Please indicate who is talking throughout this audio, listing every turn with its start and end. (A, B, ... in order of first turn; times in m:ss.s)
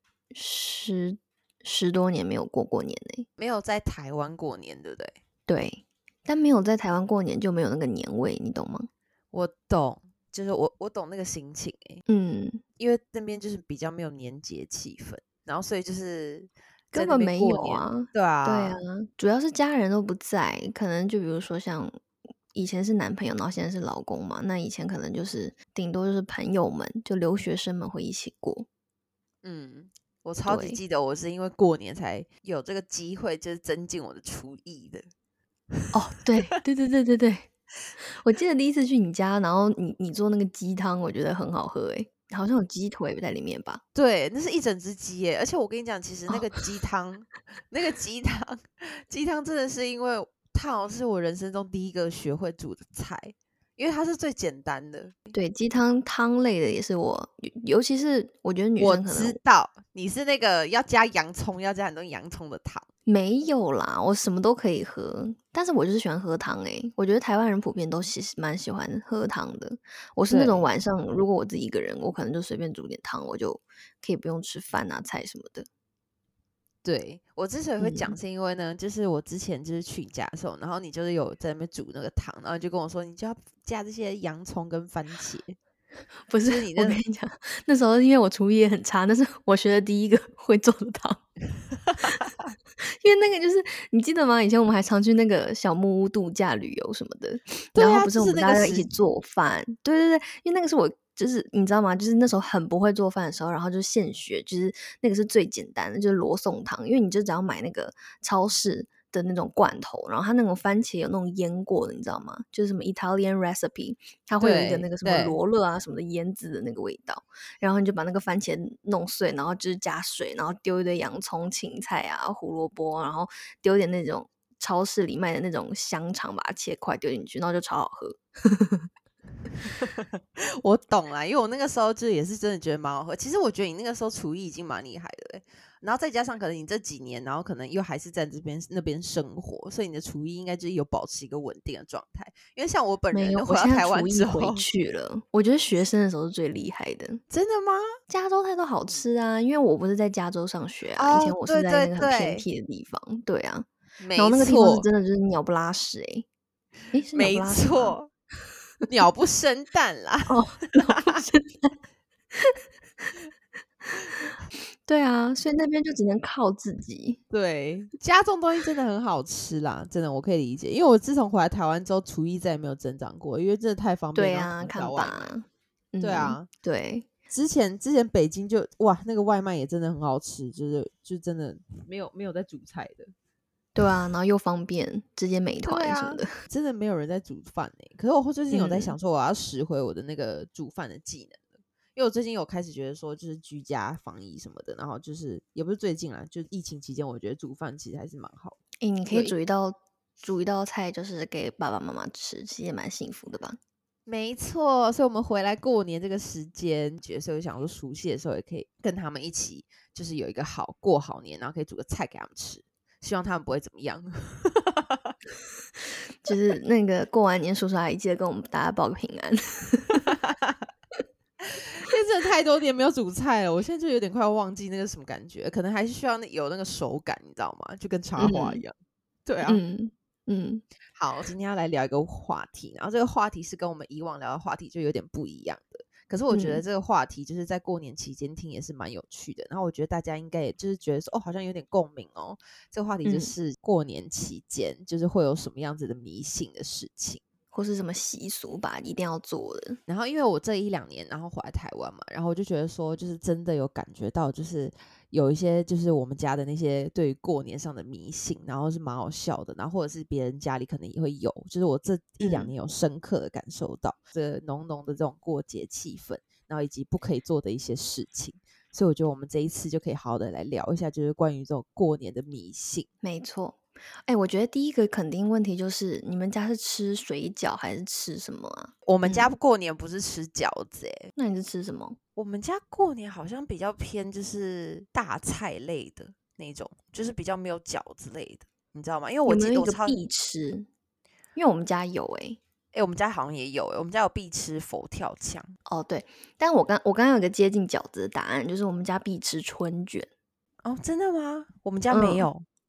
0:00.3-0:03.3 A
0:03.4-0:05.2 B
0:05.5-0:08.9 A
0:09.3-0:12.0 B
0:12.1-0:12.6 A
0:12.8-0:18.8 B
0:17.0-0:22.0 A
0:22.5-0:28.7 A
0:29.4-0:35.1 B
0:30.5-0:30.8 A
0:35.9-0:37.5 A
0:38.2-0:43.8 A
0:44.0-0:55.2 B
0:55.3-0:59.4 A
0:58.8-1:02.9 B
1:03.1-1:15.7 A
1:10.3-1:10.7 B
1:16.8-1:25.6 B
1:17.8-1:18.1 A
1:26.3-1:31.2 A
1:26.4-1:27.0 B
1:32.9-2:08.9 A
1:37.8-1:38.9 B
1:54.4-1:55.4 B
2:09.8-2:24.6 B
2:23.1-2:27.2 A
2:27.3-2:27.9 B
2:28.1-2:36.3 A
2:31.0-2:32.4 B
2:34.0-2:34.9 B
2:36.9-2:38.0 A
2:37.1-2:38.1 B
2:38.9-2:41.2 B
2:40.3-2:41.8 A
2:44.8-2:47.2 A
2:47.3-2:55.3 B
2:54.2-2:57.1 A
2:56.0-2:56.5 B
2:57.3-3:03.1 B
3:03.8-3:06.3 A
3:05.6-3:19.3 B
3:08.5-3:08.9 A
3:18.8-3:23.6 A
3:24.1-3:35.1 B
3:36.2-3:40.1 A
3:40.1-3:40.6 B
3:41.7-3:48.7 B
3:48.2-3:48.6 A
3:49.3-3:49.6 B
3:49.4-3:50.6 A
3:51.0-4:07.2 B
3:56.3-3:56.6 A
4:03.0-4:03.3 A
4:07.5-4:09.8 A
4:09.9-4:32.9 B
4:22.2-4:22.5 A
4:33.0-4:39.3 A
4:38.9-4:41.1 B
4:41.2-4:42.0 A
4:42.2-4:50.0 B
4:49.3-4:50.7 A
4:51.4-4:52.4 A
4:52.7-4:55.5 B
4:55.7-5:00.1 A
5:00.6-5:02.4 B
5:01.9-5:02.3 A